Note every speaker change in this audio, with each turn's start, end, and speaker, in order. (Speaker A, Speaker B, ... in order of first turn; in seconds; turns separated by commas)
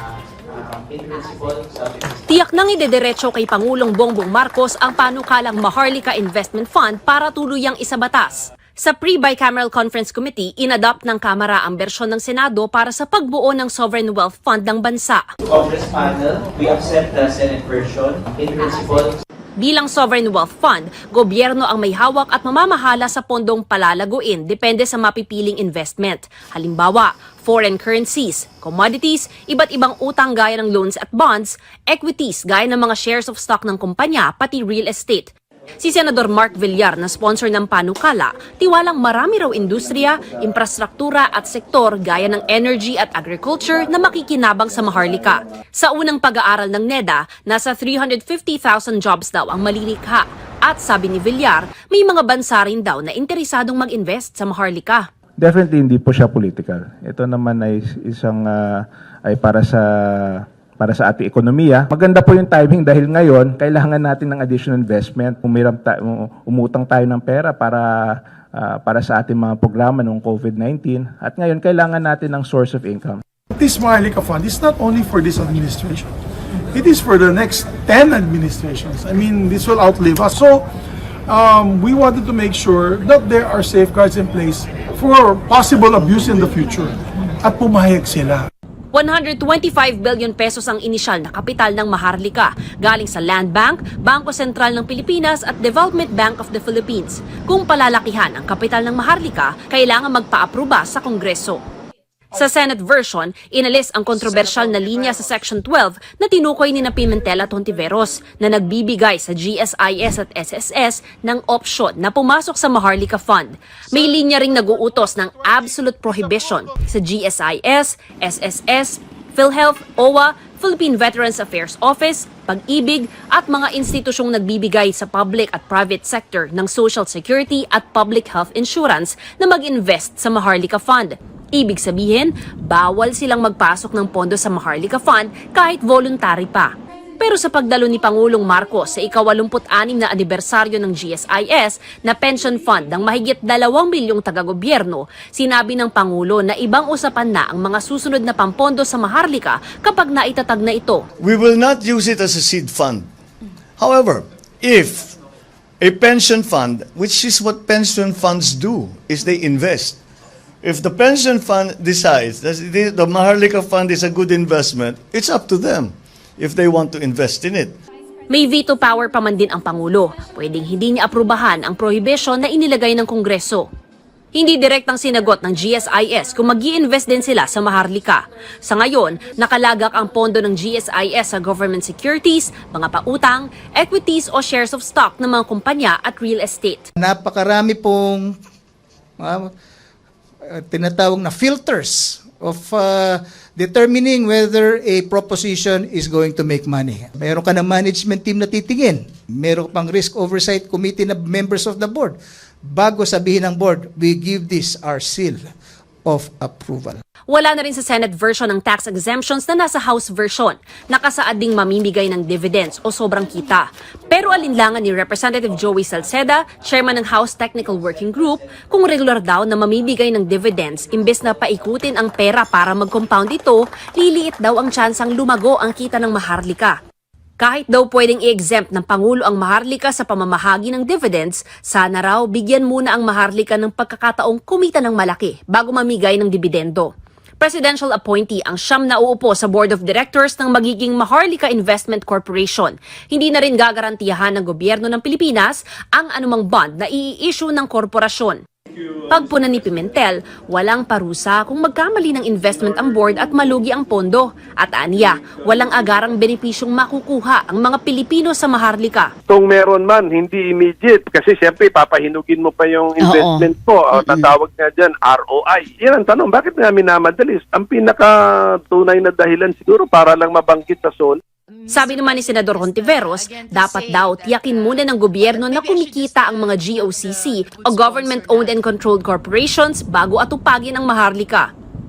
Speaker A: 0.6-2.1, Speaker B: 2.3-15.3, Speaker A: 15.4-19.1, Speaker B: 19.6-55.1, Speaker C: 55.4-67.9, Speaker C: 68.5-73.2, Speaker D: 73.5-76.1, Speaker D: 76.7-80.7, Speaker D: 81.3-88.5, Speaker B: 88.9-101.6, Speaker B: 102.3-151.1, Speaker E: 151.2-153.1, Speaker E: 153.8-155.2, Speaker E: 155.8-160.0, Speaker E: 160.6-167.8, Speaker B: 168.3-173.7, Speaker B: 174.3-186.9, Speaker F: 187.0-188.4, Speaker F: 189.2-189.5, Speaker F: 190.5-205.5, Speaker F: 206.1-207.0, Speaker B: 207.3-226.8, Speaker B: 227.4-248.4, Speaker B: 249.1-259.1, Speaker G: 259.3-271.2, Speaker B: 271.7-281.5